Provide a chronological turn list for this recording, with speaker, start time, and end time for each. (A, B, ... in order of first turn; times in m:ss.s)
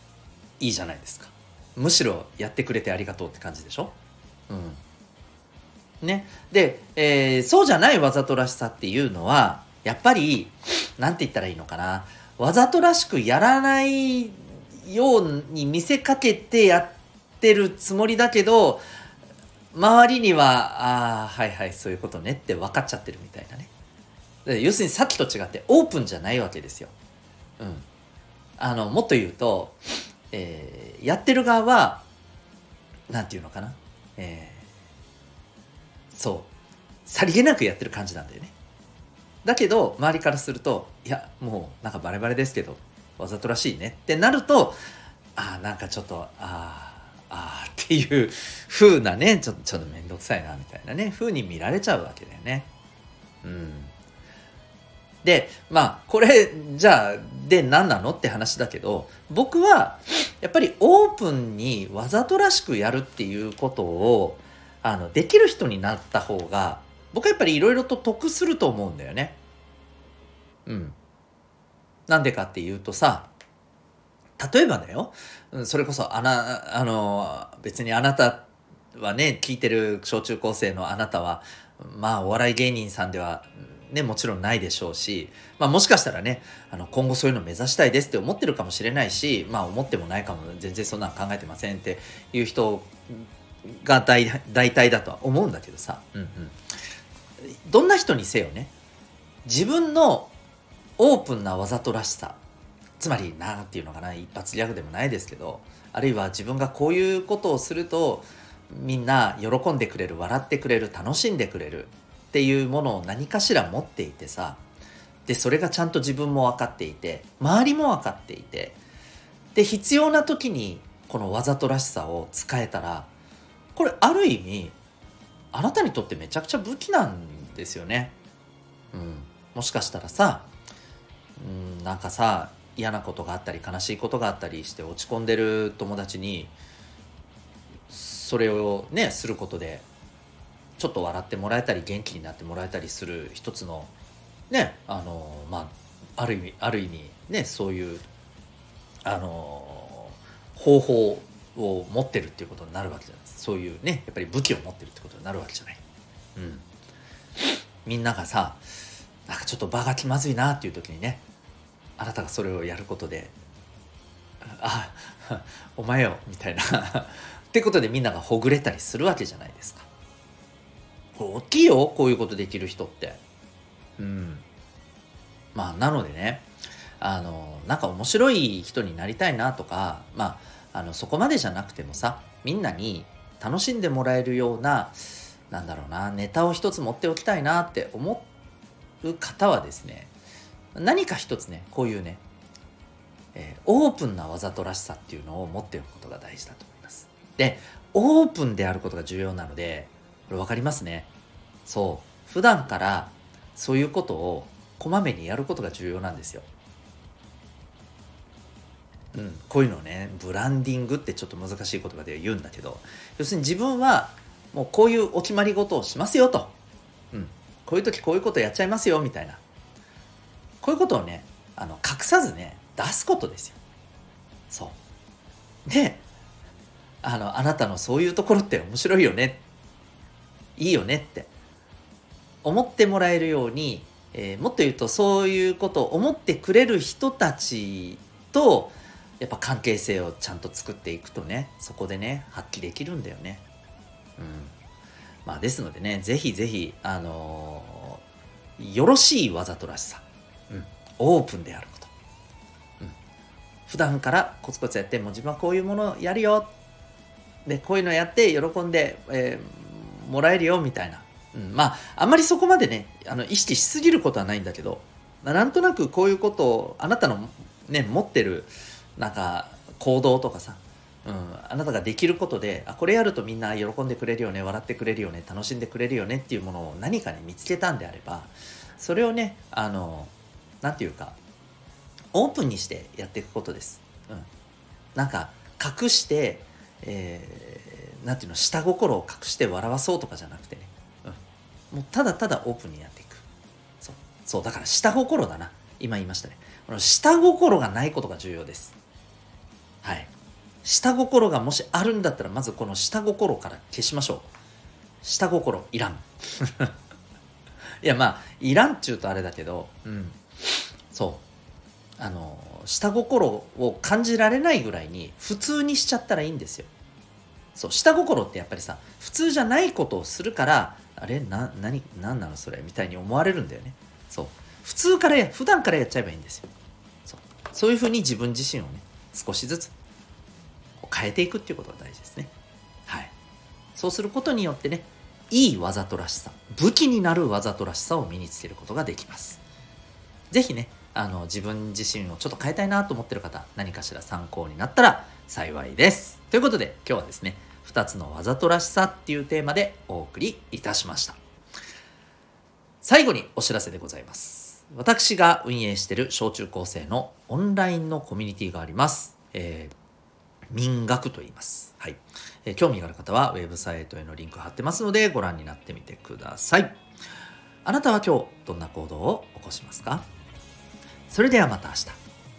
0:00.6-0:04.0 A
0:04.5-0:04.8 A
0:06.0-0:18.8 A
0:19.7-0:23.7 A
0:24.4-0:26.9 A
0:27.6-0:27.9 A
0:28.6-0:32.0 A
0:33.1-0:34.7 A
0:36.1-0:36.5 A
0:37.0-0:38.5 A
0:39.4-0:44.8 A
0:45.4-0:52.7 A
0:53.4-0:53.9 A
0:55.2-1:09.4 A
1:10.7-1:11.0 A
1:12.1-1:13.3 A
1:14.4-1:36.6 A
1:37.6-1:38.7 A
1:39.4-1:40.3 A
1:41.0-1:42.4 A
1:43.0-1:54.6 A
1:55.3-1:58.8 A
1:59.5-2:03.1 A
2:03.8-2:04.8 A
2:05.5-2:08.2 A
2:08.9-2:10.5 A
2:11.4-2:16.6 A
2:17.9-2:19.9 A
2:20.8-2:23.9 A
2:24.5-2:28.0 A
2:29.0-2:35.8 A
2:36.4-2:36.7 A
2:37.8-2:38.7 A
2:39.3-2:41.2 A
2:42.0-2:43.4 A
2:44.4-2:49.9 A
2:51.1-2:53.2 A
2:54.0-2:54.4 A
2:55.5-2:56.5 A
2:57.0-3:08.3 A
3:09.0-3:10.1 A
3:10.7-3:12.2 A
3:13.4-3:21.1 A
3:21.7-3:26.5 A
3:29.1-3:36.6 A
3:37.1-3:39.4 A
3:40.6-3:43.6 A
3:44.5-3:44.8 A
3:45.7-3:46.0 A
3:47.0-3:49.4 A
3:50.6-3:51.3 A
3:52.4-4:03.4 A
4:04.2-4:04.5 A
4:05.2-4:08.0 A
4:08.6-4:11.9 A
4:13.7-4:16.5 A
4:17.4-4:41.2 A
4:42.1-4:44.3 A
4:45.0-4:51.2 A
4:51.7-4:53.2 A
4:53.8-4:58.8 A
4:59.8-5:00.1 A
5:00.6-5:04.3 A
5:05.0-5:06.7 A
5:07.8-5:10.2 A
5:10.9-5:11.2 A
5:12.0-5:16.7 A
5:17.6-5:26.5 A
5:27.1-5:29.7 A
5:30.8-5:32.3 A
5:32.9-5:33.1 A
5:33.8-5:39.4 A
5:40.3-5:51.2 A
5:52.8-5:59.7 A
6:00.5-6:06.8 A
6:07.6-6:10.1 A
6:11.1-6:12.0 A